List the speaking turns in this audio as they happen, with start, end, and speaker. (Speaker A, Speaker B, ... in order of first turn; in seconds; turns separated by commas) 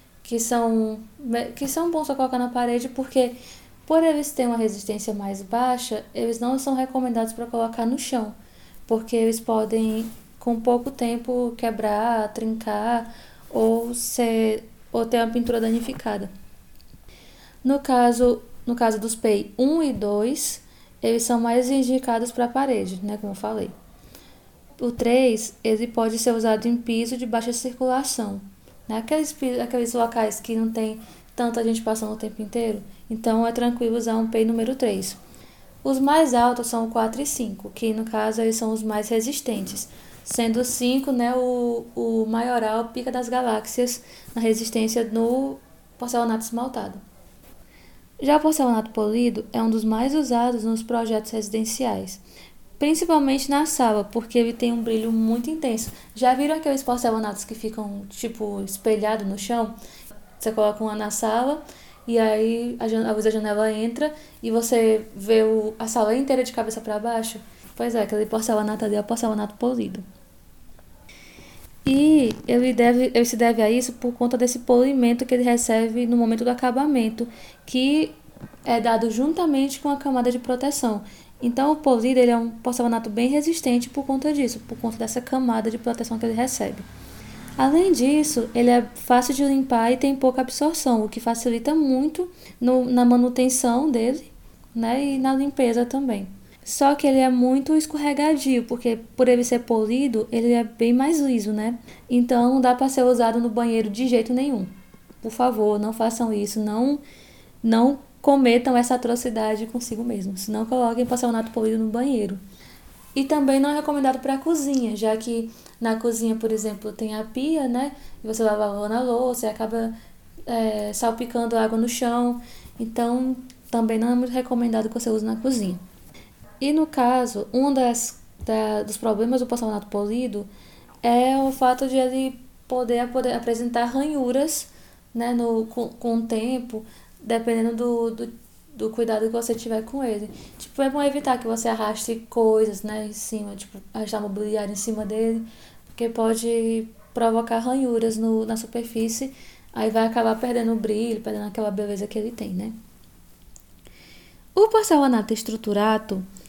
Speaker A: 0.2-8.3, Speaker A: 8.9-16.3, Speaker A: 17.6-23.7, Speaker A: 24.8-35.2, Speaker A: 35.8-47.0, Speaker A: 48.2-52.2, Speaker A: 52.8-59.7, Speaker A: 60.4-70.0, Speaker A: 71.8-86.8, Speaker A: 87.6-104.7, Speaker A: 105.2-107.0, Speaker A: 107.6-112.4, Speaker A: 113.1-119.9, Speaker A: 120.5-125.8, Speaker A: 126.6-130.5, Speaker A: 131.0-152.7, Speaker A: 154.5-156.3